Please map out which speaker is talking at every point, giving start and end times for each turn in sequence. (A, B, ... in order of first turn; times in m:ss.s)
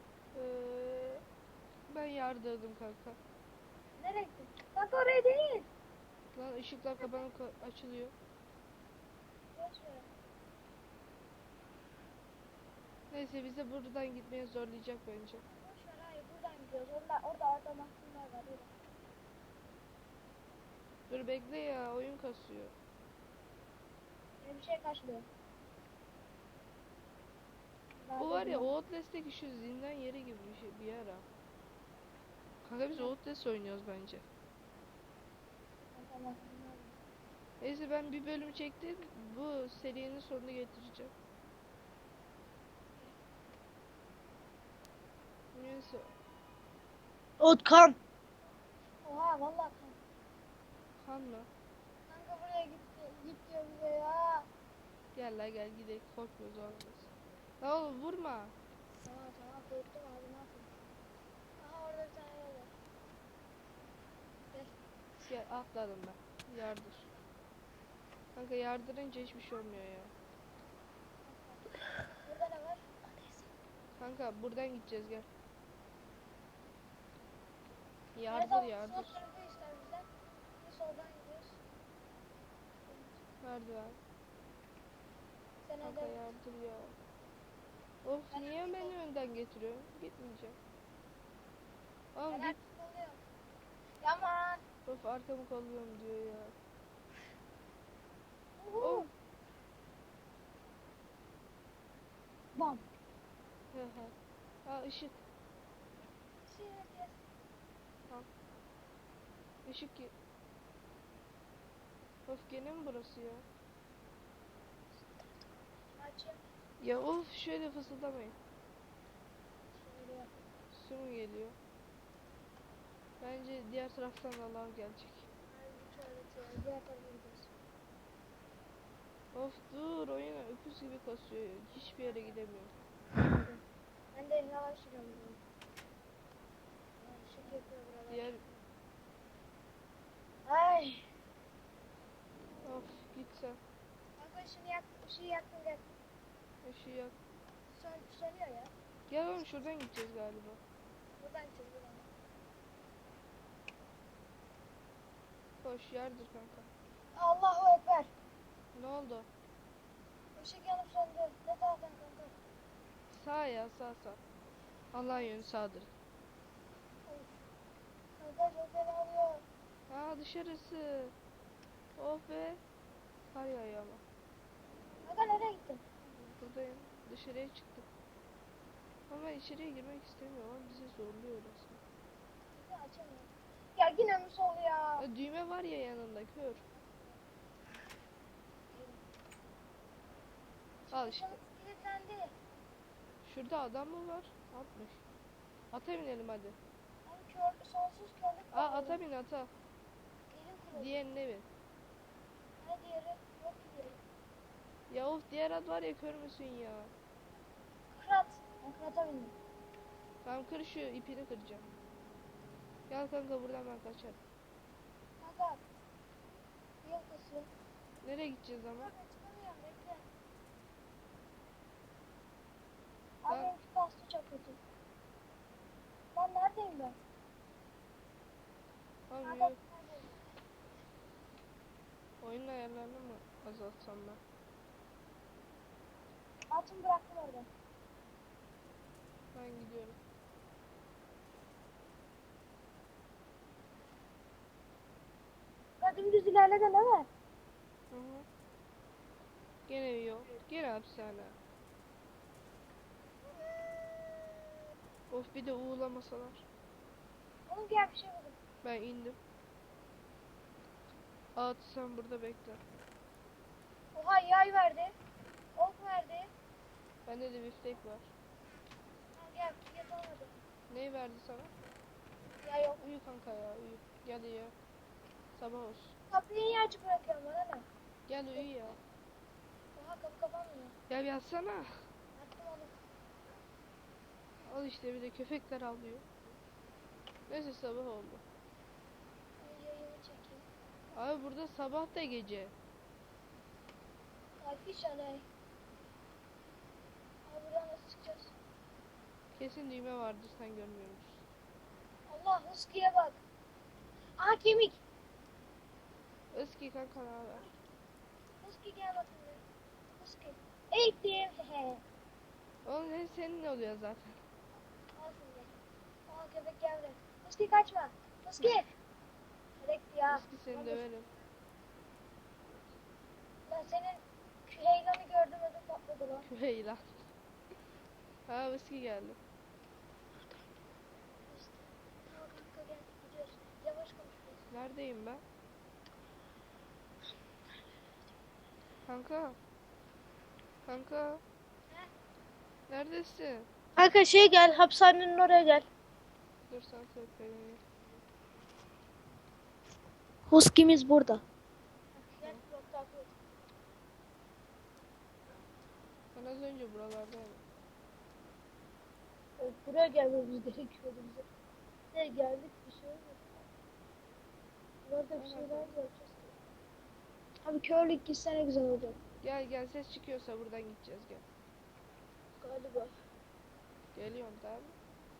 0:00.3-0:01.2 A
0:01.9-0:03.2 A
0:04.0-0:05.6 B
0:06.3-0:08.1 A
0:09.5-0:10.1 B
0:13.1-0:15.4 A
0:15.4-0:18.7 B
0:21.1-0:22.7 A
0:24.4-0:25.2 B
0:28.0-0:28.7 B
0:28.2-0:31.2 A
0:32.6-0:34.2 A
0:35.9-0:37.0 B
0:37.6-0:41.1 A
0:45.5-0:46.1 A
0:47.4-0:48.0 C
0:49.0-0:50.0 B
0:51.0-0:51.5 A
0:52.1-0:54.4 B
0:55.1-0:58.5 A
0:59.0-1:00.7 B
1:01.6-1:02.7 B
1:05.2-1:07.1 A
1:08.3-1:10.1 A
1:11.2-1:11.6 B
1:12.2-1:13.4 B
1:14.0-1:15.3 A
1:18.1-1:19.2 A
1:18.3-1:20.1 B
1:20.6-1:21.6 B
1:22.9-1:23.2 B
1:23.4-1:24.0 A
1:25.6-1:26.2 B
1:25.8-1:27.0 A
1:28.0-1:30.6 A
1:28.3-1:28.9 B
1:32.1-1:32.6 A
1:32.3-1:33.2 B
1:34.0-1:34.6 B
1:34.8-1:36.5 A
1:38.6-1:39.1 B
1:38.8-1:39.1 A
1:42.5-1:42.8 B
1:43.7-1:44.1 A
1:44.6-1:45.2 A
1:46.5-1:47.2 B
1:49.6-1:50.1 A
1:52.3-1:53.4 A
1:55.9-1:56.4 B
1:56.8-1:58.4 A
1:59.8-2:00.3 B
2:00.7-2:01.6 A
2:03.2-2:05.3 A
2:05.5-2:07.5 B
2:09.3-2:12.7 A
2:13.1-2:13.6 B
2:14.1-2:15.4 B
2:17.0-2:18.5 B
2:18.1-2:18.4 A
2:20.5-2:21.0 B
2:22.6-2:23.6 A
2:24.2-2:25.8 B
2:26.6-2:27.2 A
2:27.7-2:28.7 B
2:29.1-2:30.6 A
2:31.2-2:32.1 B
2:35.6-2:36.7 A
2:37.1-2:38.1 B
2:38.7-2:39.3 A
2:40.4-2:42.4 B
2:43.1-2:44.2 A
2:44.9-2:45.9 A
2:48.2-2:49.4 B
2:49.9-2:51.1 A
2:52.0-2:52.6 A
2:53.3-2:54.0 A
2:55.0-2:56.4 B
2:56.4-2:57.9 A
2:59.1-3:01.8 A
3:02.5-3:05.0 B
3:05.0-3:06.6 A
3:06.6-3:07.2 B
3:08.7-3:09.0 B
3:10.9-3:12.3 B
3:10.9-3:11.4 A
3:13.2-3:15.0 A
3:15.7-3:16.6 A
3:17.0-3:19.0 B
3:18.5-3:19.5 A
3:20.3-3:21.0 B
3:20.7-3:21.4 A
3:22.6-3:24.0 B
3:24.9-3:26.9 A
3:27.9-3:29.3 B
3:30.2-3:31.6 A
3:32.9-3:34.2 A
3:35.2-3:35.6 B
3:36.8-3:37.5 B
3:38.0-3:38.9 A
3:38.8-3:40.0 B
3:43.2-3:44.6 B
3:43.3-3:43.5 A
3:46.1-3:47.0 B
3:49.1-3:49.6 A
3:49.2-3:50.2 B
3:52.2-3:54.2 A
3:56.5-3:57.5 B
3:59.3-4:00.0 A
4:05.8-4:07.1 B
4:07.9-4:08.2 A
4:09.7-4:11.4 A
4:15.1-4:16.4 A
4:17.5-4:18.4 B
4:18.6-4:19.2 A
4:21.4-4:22.6 A
4:23.9-4:24.9 B
4:25.6-4:26.3 B
4:27.0-4:28.1 A
4:29.1-4:30.4 B
4:30.7-4:31.5 A
4:32.4-4:32.8 B
4:32.8-4:34.5 A
4:35.4-4:35.9 A
4:36.1-4:37.6 B
4:38.1-4:38.8 A
4:39.7-4:40.7 B
4:40.9-4:41.7 A
4:42.2-4:42.8 B
4:44.4-4:46.0 A
4:47.3-4:48.2 A
4:49.4-4:50.4 B
4:50.9-4:52.5 A
4:54.4-4:55.2 B
4:57.2-4:58.3 B
4:59.4-5:01.2 A
5:02.1-5:03.2 B
5:04.2-5:04.8 B
5:06.3-5:07.5 A
5:08.4-5:09.4 B
5:10.0-5:11.8 B
5:12.6-5:14.2 A
5:15.0-5:15.5 B
5:16.1-5:18.6 B
5:19.6-5:20.2 B
5:20.1-5:21.1 A
5:20.5-5:20.8 C
5:23.5-5:26.3 B
5:26.3-5:27.0 A
5:28.3-5:29.2 A
5:31.3-5:34.4 B
5:34.5-5:35.2 A
5:38.8-5:39.4 A
5:40.6-5:41.2 A
5:42.7-5:43.5 A
5:43.8-5:45.6 C
5:46.5-5:47.6 A
5:50.3-5:51.2 B
5:52.2-5:53.1 C
5:56.1-5:57.4 A
5:59.4-6:01.2 C
6:01.9-6:03.2 C
6:04.8-6:06.3 C
6:05.1-6:05.7 A
6:07.4-6:09.0 B
6:09.2-6:11.2 A
6:12.4-6:12.9 C
6:13.9-6:14.8 A